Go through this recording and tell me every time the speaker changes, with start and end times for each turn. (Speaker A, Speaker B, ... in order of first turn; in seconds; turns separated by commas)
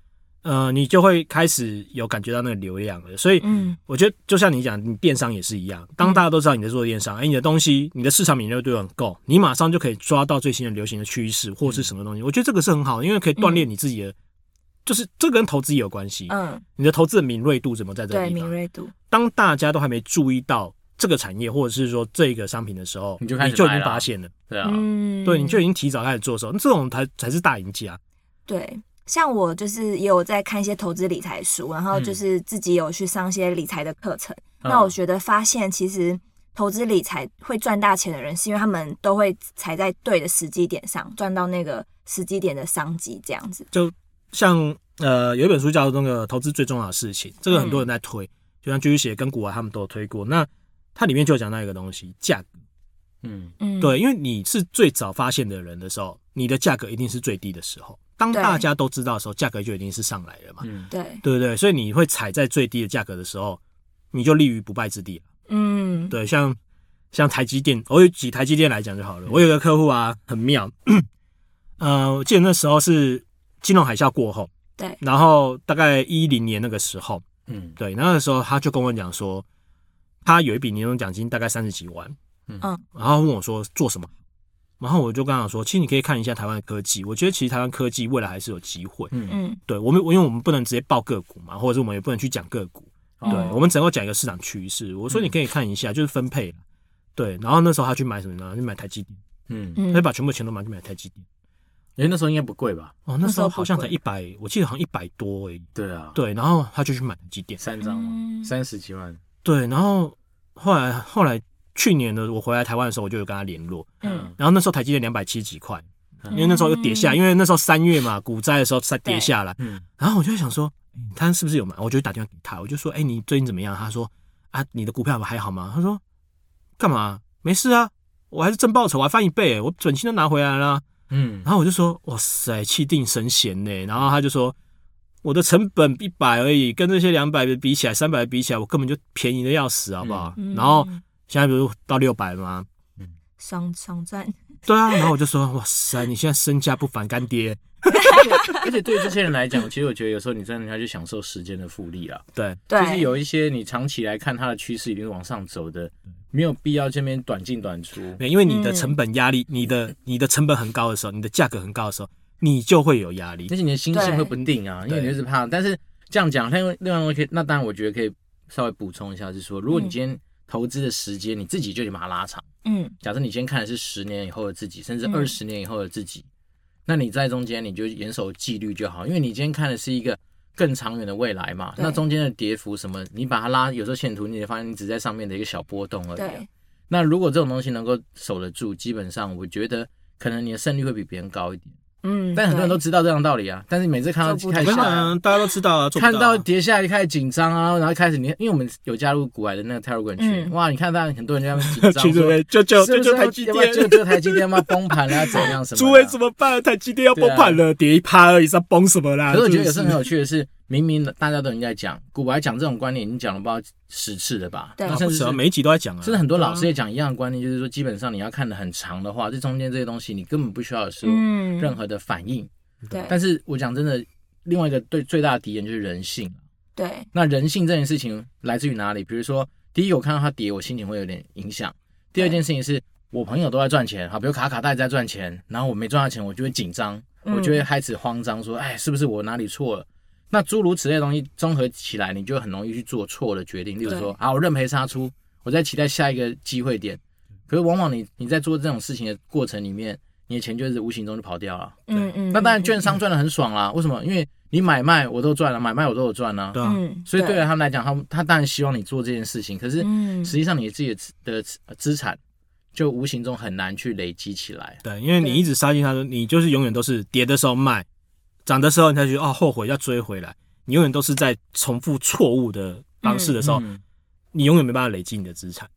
Speaker A: 0.4-14.1, Speaker B: 3.4-3.8, Speaker B: 13.4-13.6, Speaker A: 14.8-18.5, Speaker B: 16.3-16.6, Speaker B: 18.1-18.9, Speaker A: 19.1-24.3, Speaker C: 23.2-24.9, Speaker B: 24.6-25.6, Speaker A: 25.2-28.0, Speaker B: 28.5-43.6, Speaker C: 31.9-32.2, Speaker C: 34.6-34.9, Speaker A: 43.7-52.5, Speaker B: 47.5-47.8, Speaker C: 53.2-53.5, Speaker B: 53.6-54.0, Speaker A: 53.8-60.6, Speaker B: 58.3-58.6, Speaker C: 60.6-60.9, Speaker B: 60.9-61.2, Speaker A: 61.2-63.6, Speaker A: 64.1-65.2, Speaker B: 65.5-66.1, Speaker A: 66.1-66.6, Speaker A: 67.1-71.1, Speaker A: 71.8-74.5, Speaker A: 75.0-77.2, Speaker C: 77.5-77.8, Speaker A: 77.8-79.4, Speaker A: 80.2-82.2, Speaker A: 82.9-84.1, Speaker A: 84.8-89.1, Speaker C: 89.1-89.4, Speaker B: 89.3-89.6, Speaker A: 89.7-96.6, Speaker C: 93.2-93.6, Speaker B: 93.2-93.5, Speaker A: 97.2-99.2, Speaker C: 99.5-99.8, Speaker B: 99.8-100.0, Speaker A: 99.9-101.2, Speaker C: 102.0-103.0, Speaker A: 103.1-107.6, Speaker B: 103.2-103.9, Speaker C: 105.8-106.2, Speaker C: 107.6-109.2, Speaker B: 107.8-108.5, Speaker A: 109.4-126.0, Speaker B: 114.0-114.3, Speaker C: 114.0-114.3, Speaker B: 116.3-117.2, Speaker B: 119.0-119.3, Speaker C: 119.6-119.8, Speaker A: 126.8-130.8, Speaker C: 131.1-131.5, Speaker A: 131.4-134.5, Speaker A: 135.2-142.7, Speaker C: 140.0-140.3, Speaker B: 140.4-141.0, Speaker B: 143.4-144.4, Speaker A: 144.7-148.2, Speaker B: 148.0-148.6, Speaker C: 148.1-158.2, Speaker A: 152.3-152.6, Speaker B: 152.7-153.1, Speaker A: 158.2-165.1, Speaker B: 158.4-158.9, Speaker C: 163.5-172.4, Speaker B: 163.9-164.3, Speaker B: 172.6-172.9, Speaker C: 173.0-176.2, Speaker B: 175.0-175.3, Speaker C: 176.9-191.7, Speaker B: 186.2-186.5, Speaker B: 192.0-192.8, Speaker C: 192.3-195.1, Speaker B: 194.2-195.0, Speaker A: 194.6-196.4, Speaker C: 195.9-206.2, Speaker B: 200.2-200.5, Speaker A: 201.6-210.1, Speaker C: 207.1-207.6, Speaker C: 209.3-215.4, Speaker A: 214.9-216.7, Speaker C: 216.0-222.5, Speaker B: 221.0-221.8, Speaker B: 222.9-223.2, Speaker C: 223.1-226.4, Speaker B: 226.8-227.1, Speaker C: 227.1-262.2, Speaker B: 237.2-237.6, Speaker B: 243.8-244.1, Speaker B: 251.9-252.8, Speaker A: 256.5-256.8, Speaker B: 256.6-257.4, Speaker B: 259.8-260.3, Speaker C: 262.7-264.8, Speaker A: 264.8-267.8, Speaker A: 268.4-273.6, Speaker B: 273.0-273.3, Speaker C: 273.4-273.8, Speaker A: 274.3-275.7